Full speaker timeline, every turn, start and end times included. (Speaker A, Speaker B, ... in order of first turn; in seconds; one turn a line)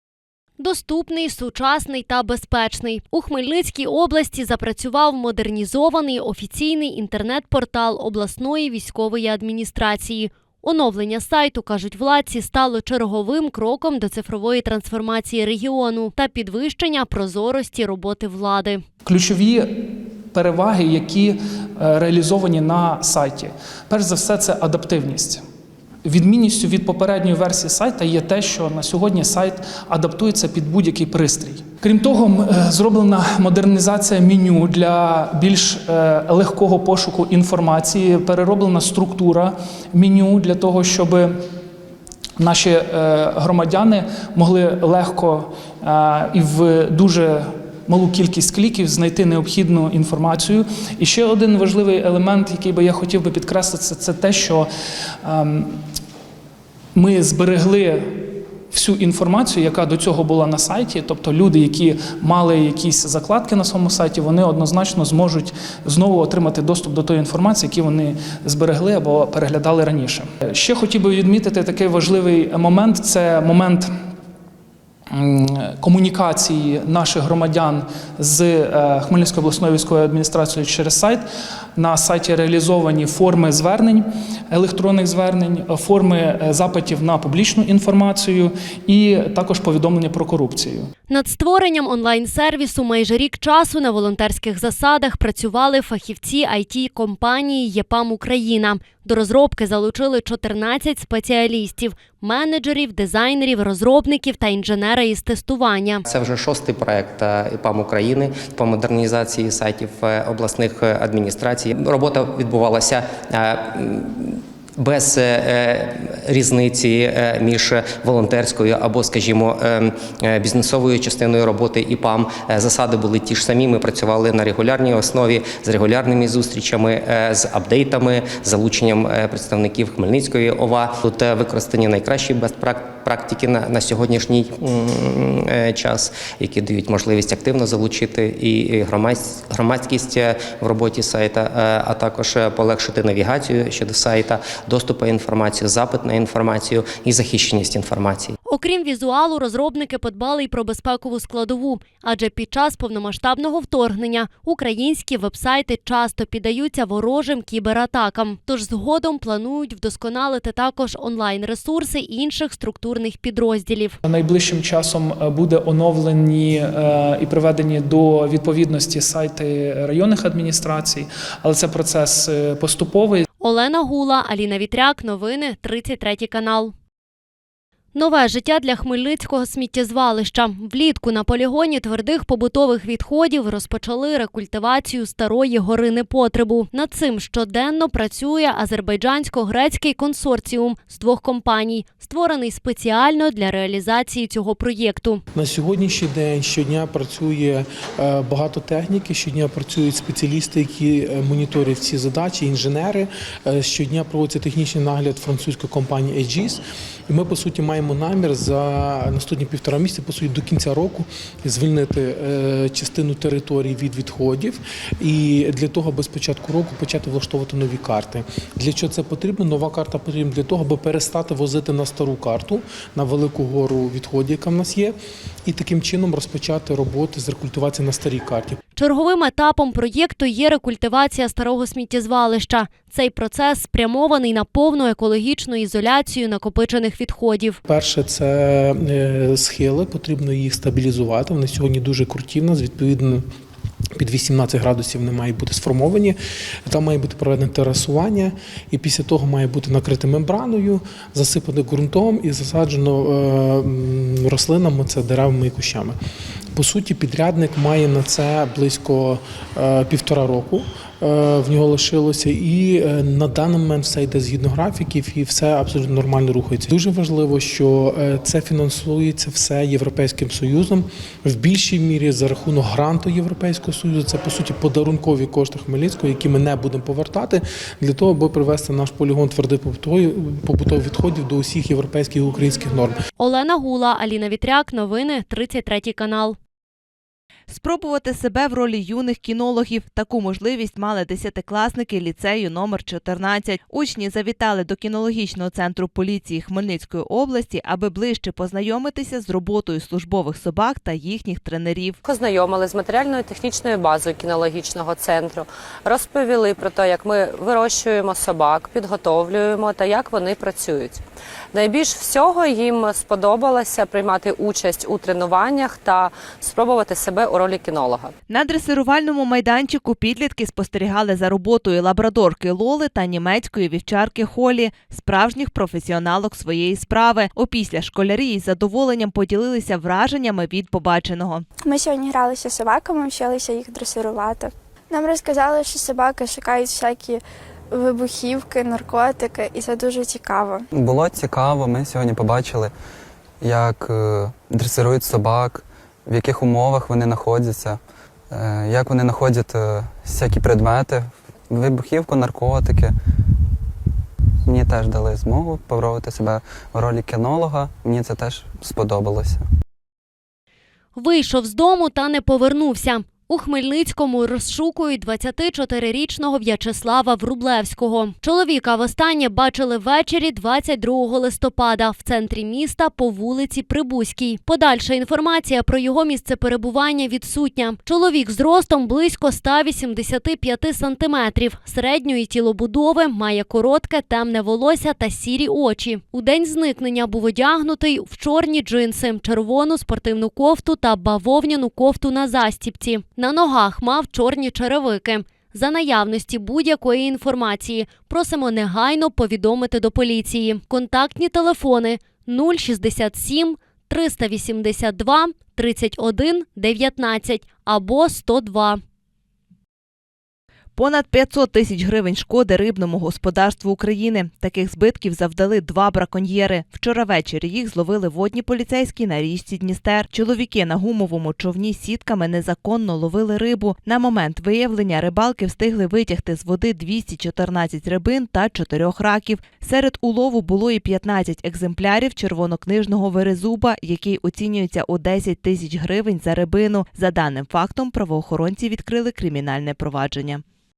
Speaker A: 0.6-18.8
Speaker B: 19.1-25.4
Speaker B: 26.1-41.4
Speaker B: 42.4-54.7
Speaker B: 55.2-55.8
Speaker B: 57.0-73.9
Speaker B: 75.1-81.2
Speaker B: 81.8-90.9
Speaker A: 91.1-106.0
Speaker C: 106.1-148.3
Speaker A: 148.4-164.0
Speaker B: 164.1-173.2
Speaker A: 173.4-176.7
Speaker A: 177.9-195.2
Speaker D: 195.3-228.6
Speaker A: 228.8-237.6
Speaker D: 237.7-243.2
Speaker D: 243.9-255.9
Speaker D: 256.6-283.0
Speaker A: 283.2-286.4
Speaker E: 287.5-302.0
Speaker F: 302.1-311.0
Speaker F: 311.5-318.1
Speaker E: 318.3-331.4
Speaker G: 331.6-340.7
Speaker H: 340.7-342.7
Speaker H: 343.4-347.8
Speaker H: 348.3-352.9
Speaker H: 354.4-359.4
Speaker A: 360.9-408.8
Speaker E: 410.8-440.4